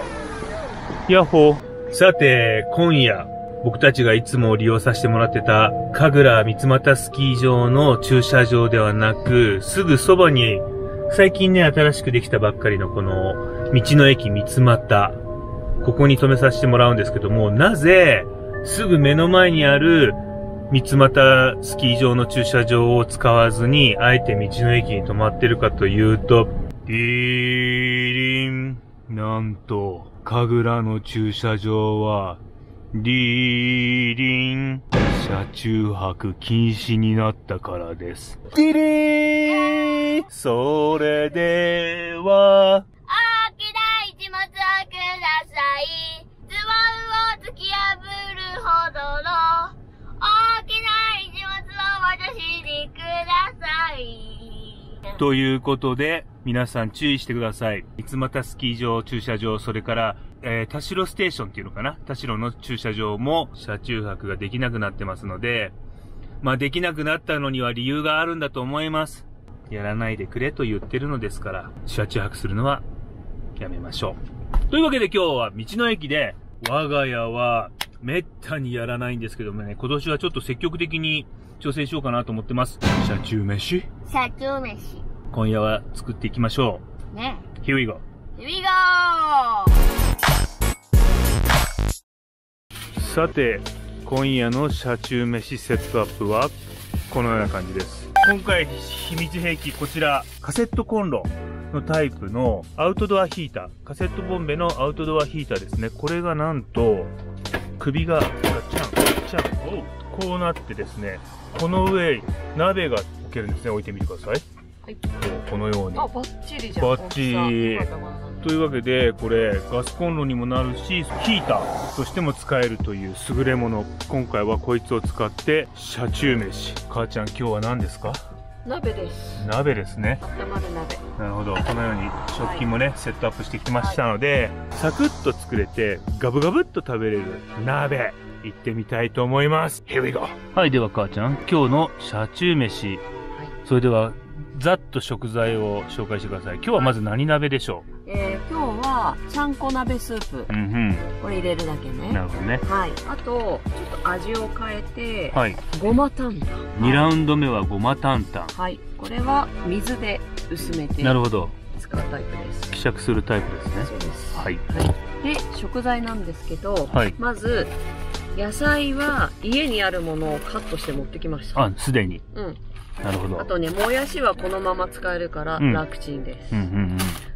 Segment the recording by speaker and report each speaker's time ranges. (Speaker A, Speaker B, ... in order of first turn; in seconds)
Speaker A: 1.1-15.2, 15.8-32.4, 32.9-42.9, 55.1-65.8, 66.4-72.8, 73.6-83.9, 85.3-86.8, 87.6-88.0, 93.0-96.5, 97.1-107.1, 107.8-114.4, 115.2-116.1, 116.8-117.9, 118.4-128.2, 129.4-130.2, 131.2-143.0, 143.6-147.9, 150.5-151.1, 152.1-152.6, 155.3-155.7, 156.8-158.6, 161.0-161.5, 162.7-164.6, 166.9-167.2, 171.6-172.2, 173.0-173.5, 176.5-177.2
Speaker B: 43.1-55.2, 84.1-85.0, 87.1-87.5, 88.4-89.8
Speaker C: 116.0-118.4, 128.7-129.5, 130.2-131.0, 132.4-132.7, 148.1-150.5, 151.2-157.1, 158.6-161.2, 161.7-162.7, 163.8-167.7, 168.3-171.7, 172.3-172.6, 173.4-176.7